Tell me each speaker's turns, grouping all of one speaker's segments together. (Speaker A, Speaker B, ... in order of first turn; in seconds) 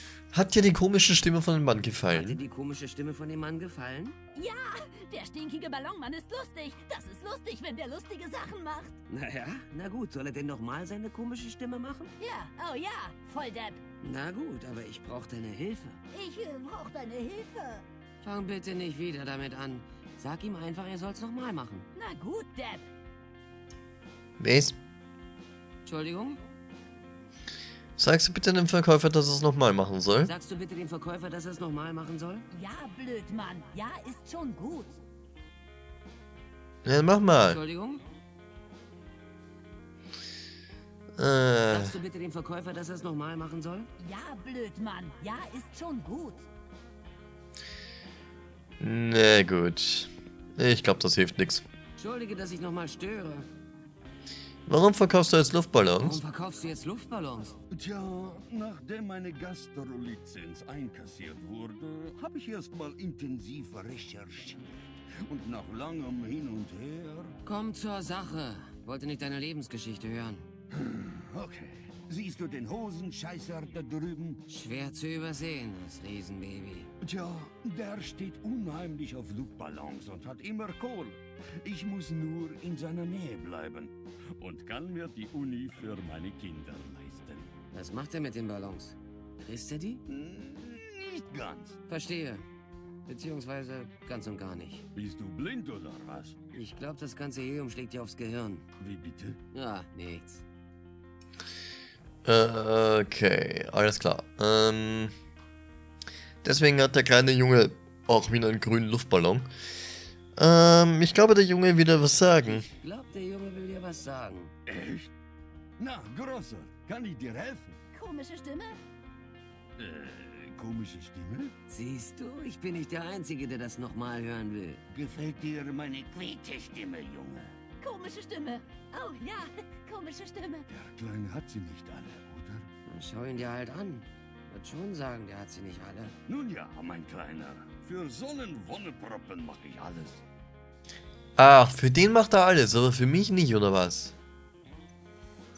Speaker A: 0.3-2.4, 24.4-24.8, 28.0-30.3, 36.8-37.6, 41.2-42.0, 48.8-51.6, 54.7-56.2, 102.2-105.1, 106.4-109.5, 110.4-112.7, 141.4-144.1
Speaker B: 2.1-4.2, 9.1-12.1, 14.0-16.0, 18.2-21.9, 25.8-26.4, 30.2-32.5, 37.4-38.0, 41.7-43.9, 52.0-53.5, 56.0-57.6, 67.4-70.5, 74.5-76.9, 87.7-90.0, 91.9-92.4, 93.0-94.8, 96.5-98.6, 99.5-100.4, 112.4-114.5, 121.7-124.8, 132.9-136.1
Speaker C: 4.3-9.0, 12.2-13.8, 16.1-17.8, 21.9-22.9, 32.5-34.9, 44.0-46.4, 117.9-118.8, 127.8-130.7
Speaker D: 57.7-67.3, 70.7-74.4, 77.0-87.5, 90.1-91.8, 94.9-96.4, 98.8-99.4, 114.7-115.1, 115.8-117.8, 119.8-121.5, 124.9-127.5, 130.7-132.7, 136.3-140.2